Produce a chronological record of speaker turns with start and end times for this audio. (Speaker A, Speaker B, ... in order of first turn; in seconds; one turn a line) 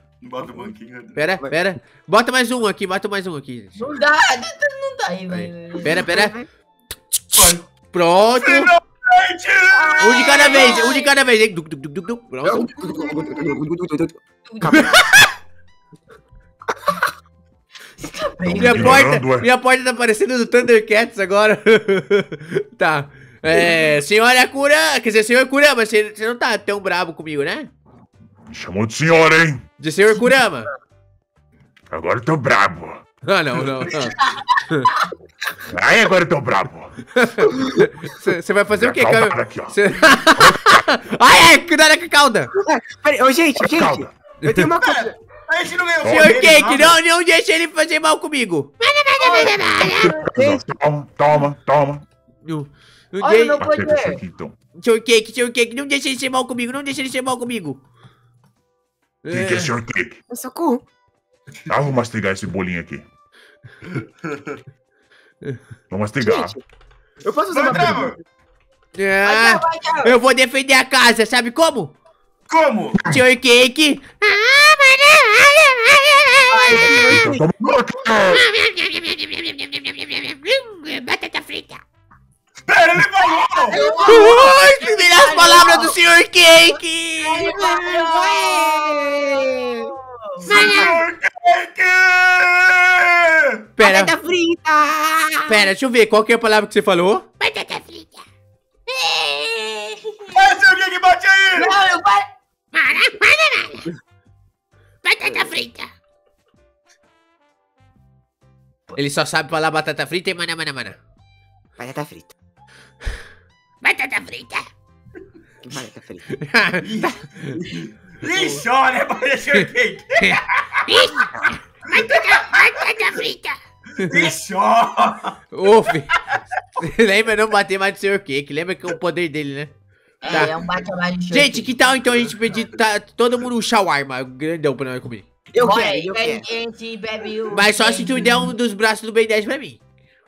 Speaker A: 0.2-1.2
Speaker B: 1.1-3.8
Speaker C: 3.8-6.0
Speaker B: 5.3-6.4
Speaker D: 5.8-6.5
Speaker B: 7.1-8.7
Speaker A: 7.3-7.7
Speaker A: 8.4-10.8
Speaker C: 9.7-11.1
Speaker B: 10.0-13.1
Speaker D: 12.4-14.9
Speaker C: 14.5-14.9
Speaker B: 14.7-15.3
Speaker C: 18.0-19.0
Speaker E: 18.4-19.5
Speaker B: 18.5-27.7
Speaker E: 28.5-29.6
Speaker B: 29.8-30.7
Speaker E: 31.9-33.0
Speaker B: 33.2-34.9
Speaker E: 35.7-36.9
Speaker B: 37.1-42.5
Speaker E: 38.7-40.9
Speaker D: 42.5-45.1
Speaker E: 43.6-44.1
Speaker B: 44.4-44.7
Speaker A: 44.7-47.0
Speaker E: 46.0-46.4
Speaker B: 46.0-50.1
Speaker C: 49.2-50.3
Speaker E: 49.8-52.0
Speaker D: 50.3-50.6
Speaker B: 52.4-53.7
Speaker C: 53.2-54.2
Speaker E: 53.6-54.5
Speaker B: 54.8-57.8
Speaker B: 59.2-59.7
Speaker E: 59.3-60.2
Speaker D: 60.3-60.8
Speaker E: 61.7-63.0
Speaker A: 64.0-64.6
Speaker E: 65.9-66.5
Speaker D: 66.2-66.6
Speaker D: 67.2-68.2
Speaker A: 67.5-68.2
Speaker B: 68.9-71.9
Speaker C: 69.2-70.1
Speaker A: 72.5-73.0
Speaker B: 73.0-77.3
Speaker C: 76.5-77.0
Speaker D: 76.5-77.5
Speaker E: 77.2-78.4
Speaker B: 78.3-81.8
Speaker A: 82.7-84.2
Speaker C: 83.7-86.0
Speaker B: 84.0-87.6
Speaker C: 87.2-90.7
Speaker D: 87.4-89.9
Speaker A: 90.4-93.4
Speaker B: 90.5-91.0
Speaker B: 93.8-94.1
Speaker D: 93.8-95.7
Speaker B: 95.5-98.2
Speaker C: 98.9-100.5
Speaker A: 100.3-101.8
Speaker C: 101.6-102.3
Speaker B: 102.7-103.9
Speaker B: 105.0-105.9
Speaker B: 109.0-111.0
Speaker D: 111.8-112.3
Speaker B: 113.8-114.7
Speaker D: 115.6-116.3
Speaker B: 116.3-117.5
Speaker A: 116.8-120.8
Speaker B: 120.2-124.3
Speaker A: 121.9-122.8
Speaker A: 124.1-125.3
Speaker B: 125.5-126.2
Speaker B: 126.8-129.7
Speaker C: 130.2-132.0
Speaker B: 130.3-130.5
Speaker B: 131.3-135.2
Speaker D: 135.5-136.4
Speaker C: 135.6-138.4
Speaker B: 137.5-139.8